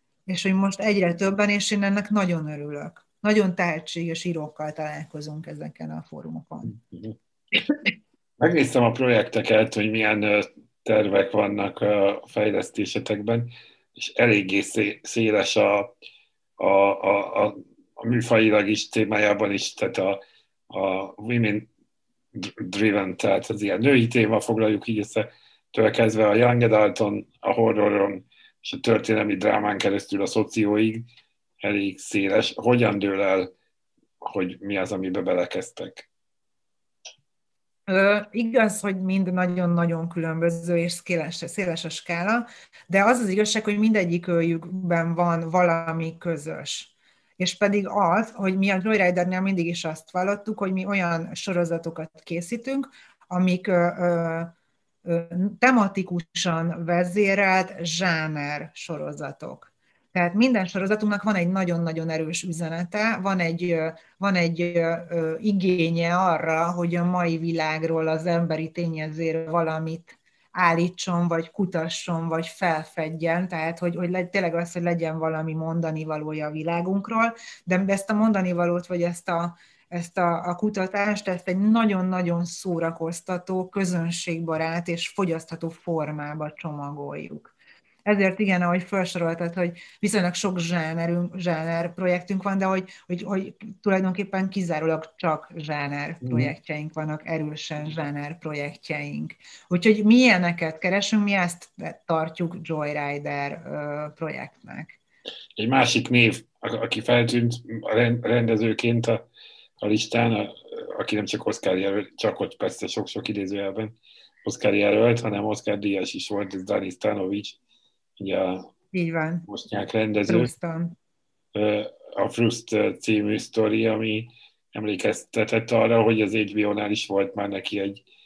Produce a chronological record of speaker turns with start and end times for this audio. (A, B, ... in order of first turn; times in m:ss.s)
0:00.3-0:06.7 A
0:06.7-0:07.2 B
0:08.4-0:15.9 B
0:16.6-0:21.7 B
0:22.4-0:31.1 B
0:31.6-0:33.5 B
0:34.2-0:36.1 B
0:37.9-0:54.5 A
0:55.0-1:27.5 A
1:28.0-1:45.0 A
1:36.2-1:36.5 B
1:45.6-1:49.2 B
1:49.8-1:57.6 B
1:58.2-1:58.7 B
1:58.9-1:59.5 A
1:59.5-2:00.5 B
2:00.3-2:01.0 A
2:01.6-2:08.0 B